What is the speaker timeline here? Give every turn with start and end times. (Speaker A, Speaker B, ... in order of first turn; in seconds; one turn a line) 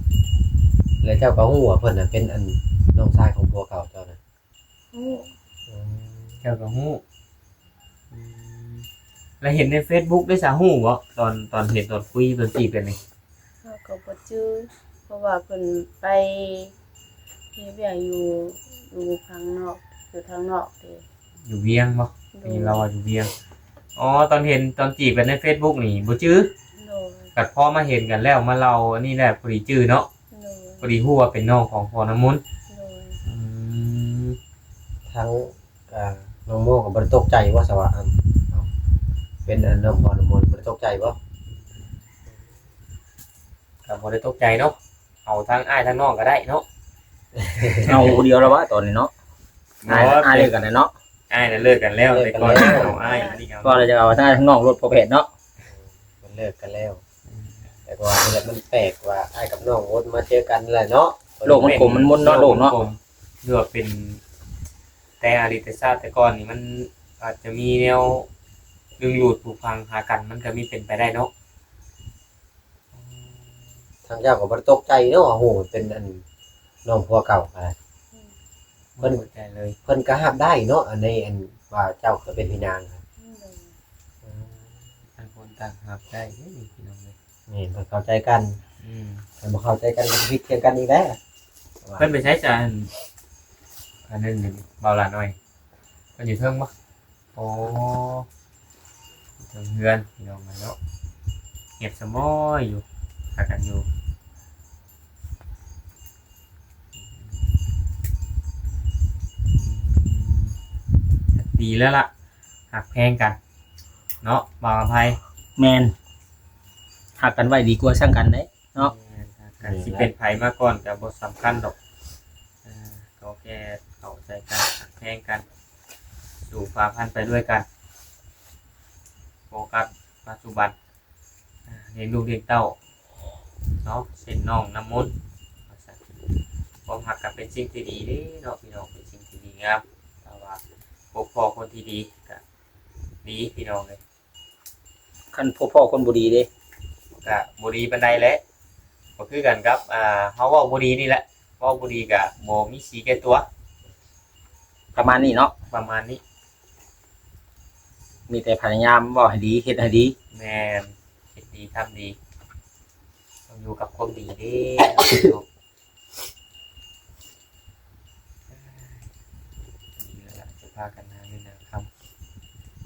Speaker A: 1.0-4.2
Speaker B: 4.9-5.3
Speaker A: 5.7-6.3
Speaker C: 6.4-7.0
Speaker C: 8.1-8.8
Speaker C: 9.4-13.0
Speaker B: 13.6-16.7
Speaker B: 17.5-21.0
Speaker C: 21.4-23.3
Speaker B: 22.3-22.9
Speaker C: 23.9-26.5
Speaker B: 26.8-27.3
Speaker C: 27.4-30.1
Speaker B: 30.3-30.9
Speaker C: 30.8-32.4
Speaker B: 32.7-33.2
Speaker C: 33.2-34.4
Speaker A: 35.1-38.7
Speaker A: 39.4-41.2
Speaker C: 43.9-46.6
Speaker A: 47.5-48.1
Speaker C: 47.8-48.2
Speaker D: 47.8-49.1
Speaker C: 49.8-50.5
Speaker D: 49.9-50.9
Speaker C: 51.3-53.9
Speaker A: 52.1-53.0
Speaker B: 52.8-53.4
Speaker D: 53.6-55.3
Speaker A: 55.7-57.0
Speaker C: 57.3-57.6
Speaker A: 57.9-62.1
Speaker D: 61.5-62.8
Speaker C: 61.5-64.2
Speaker C: 65.2-68.3
Speaker C: 69.0-71.3
Speaker C: 72.9-73.4
Speaker A: 74.1-76.2
Speaker A: 76.8-77.7
Speaker C: 79.0-79.8
Speaker A: 79.8-83.0
Speaker B: 83.2-83.7
Speaker A: 84.2-84.5
Speaker C: 85.2-87.1
Speaker A: 87.5-88.6
Speaker C: 88.8-89.2
Speaker A: 89.4-91.2
Speaker A: 91.8-92.1
Speaker C: 92.0-92.9
Speaker C: 94.1-95.3
Speaker C: 96.2-96.7
Speaker C: 97.3-98.3
Speaker C: 99.4-100.8
Speaker C: 101.8-102.8
Speaker C: 103.3-103.9
Speaker C: 109.5-110.5
Speaker C: 111.3-112.1
Speaker C: 112.7-113.4
Speaker C: 114.2-115.2
Speaker D: 115.6-115.9
Speaker D: 117.2-118.9
Speaker C: 118.8-121.7
Speaker A: 119.6-120.1
Speaker C: 122.6-125.4
Speaker C: 126.5-127.6
Speaker C: 129.5-130.7
Speaker C: 131.7-132.8
Speaker C: 133.8-135.1
Speaker C: 135.7-136.0
Speaker C: 136.9-140.6
Speaker C: 141.1-142.4
Speaker C: 143.2-144.0
Speaker D: 145.3-146.5
Speaker C: 147.1-148.4
Speaker C: 149.2-153.4
Speaker D: 154.9-155.5
Speaker C: 155.7-156.2
Speaker D: 158.3-160.1
Speaker C: 160.3-162.2
Speaker C: 163.5-165.4
Speaker C: 168.5-169.0
Speaker C: 170.0-171.9